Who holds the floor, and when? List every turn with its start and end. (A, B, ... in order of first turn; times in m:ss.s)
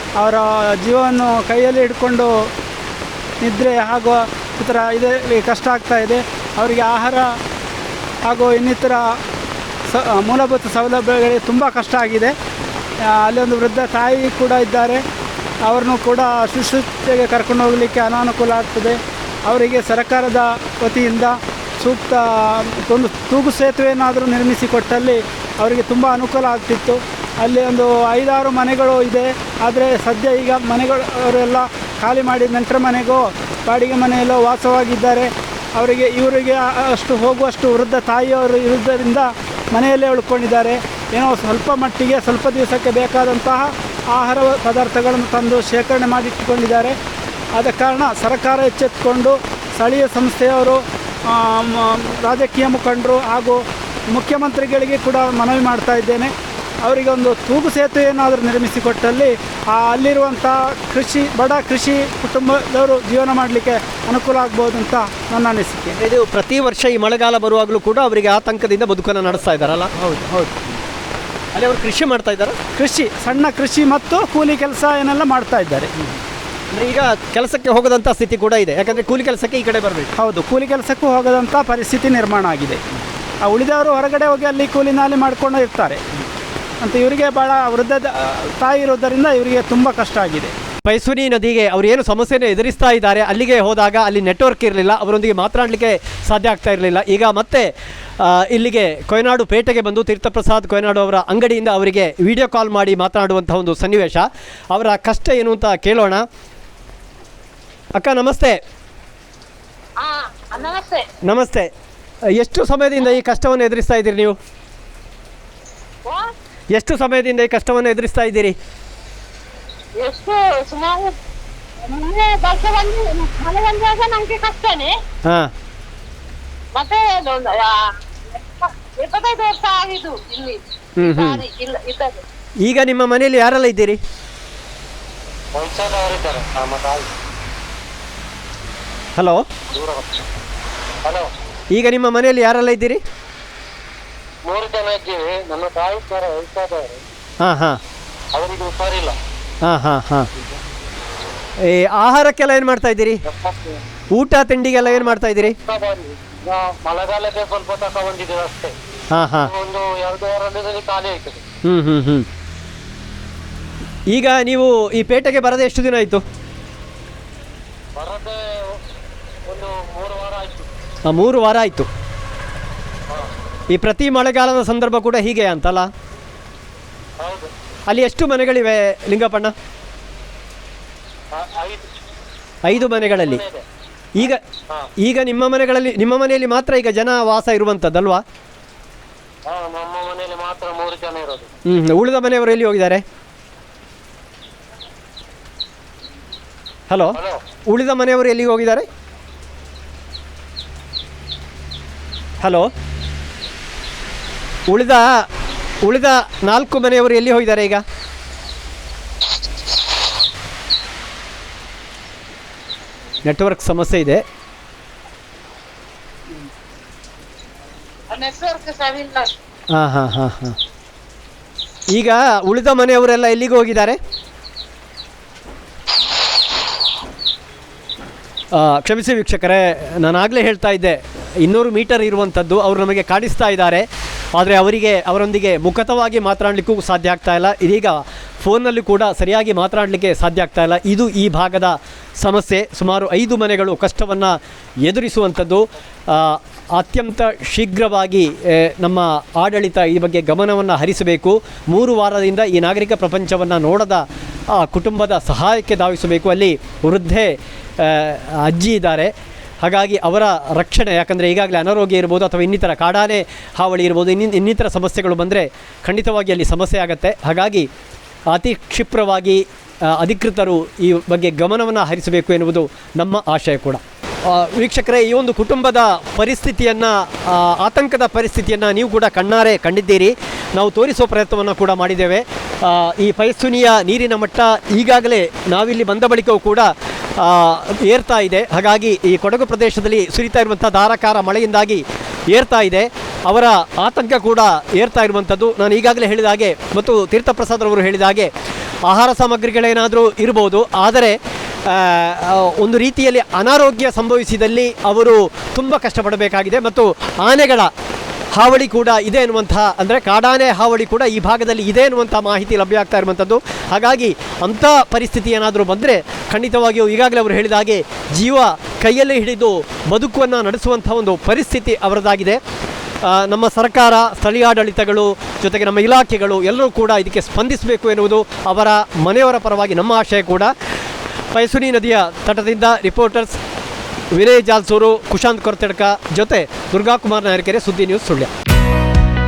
0:00.2-0:02.3 A
0:03.4-0:07.3 A
0:08.3-0:09.2 A
0:09.9-0:12.3 A
0:13.0-0:15.0 A
0:15.6-0:47.0 A
0:47.6-0:56.3 A
0:56.8-1:06.0 A
1:06.0-1:09.9 B
1:10.0-1:10.6 A
1:11.5-1:12.6 B
1:12.8-1:15.9 A
1:16.7-1:20.1 B
1:20.2-1:22.8 A
1:23.4-1:26.0 A
1:26.8-1:30.5 A
1:30.8-1:46.2 B
1:48.0-1:48.6 B
1:50.0-1:51.1 C
1:51.2-1:51.7 B
1:52.4-1:54.4 B
1:56.1-1:56.3 C
1:56.7-1:58.6 B
2:00.0-2:01.1 C
2:01.8-2:04.9 C
2:05.2-2:05.5 B
2:06.8-2:12.2 C
2:11.0-2:11.4 B
2:12.6-2:14.0 B
2:15.6-2:17.1 D
2:19.2-2:19.4 B
2:19.7-2:20.1 D
2:21.7-2:23.0 B
2:24.5-2:27.0 D
2:27.4-2:27.8 B
2:28.3-2:29.2 D
2:29.6-2:30.3 B
2:31.6-2:33.2 B
2:33.3-2:33.8 D
2:34.1-2:35.6 B
2:35.6-2:38.8 D
2:39.1-2:39.5 B
2:39.4-2:41.4 D
2:41.6-2:42.3 B
2:44.1-2:46.2 B
2:48.0-2:48.8 D
2:49.5-2:50.7 D
2:51.1-2:51.9 B
2:53.7-2:55.9 B
2:57.2-2:57.5 D
2:57.9-2:59.5 B
3:01.3-3:01.9 D
3:02.6-3:03.4 B
3:02.7-3:03.6 D
3:04.2-3:04.4 B
3:05.0-3:08.2 B
3:09.5-3:11.5 D
3:11.7-3:13.0 B
3:16.9-3:18.9 B
3:17.1-3:17.4 D
3:22.4-3:22.7 B
3:24.7-3:25.3 B
3:25.8-3:27.8 B
3:33.2-3:34.2 B
3:38.1-3:39.3 C
3:39.7-3:40.6 B
3:41.9-3:44.0 B
3:48.5-4:19.1 B
4:19.6-4:27.7 B
4:28.3-4:58.3 B
4:58.9-5:07.7 B
5:08.4-5:22.4 B
5:23.0-5:30.5 B
5:31.3-5:33.4 B
5:34.1-5:38.3 B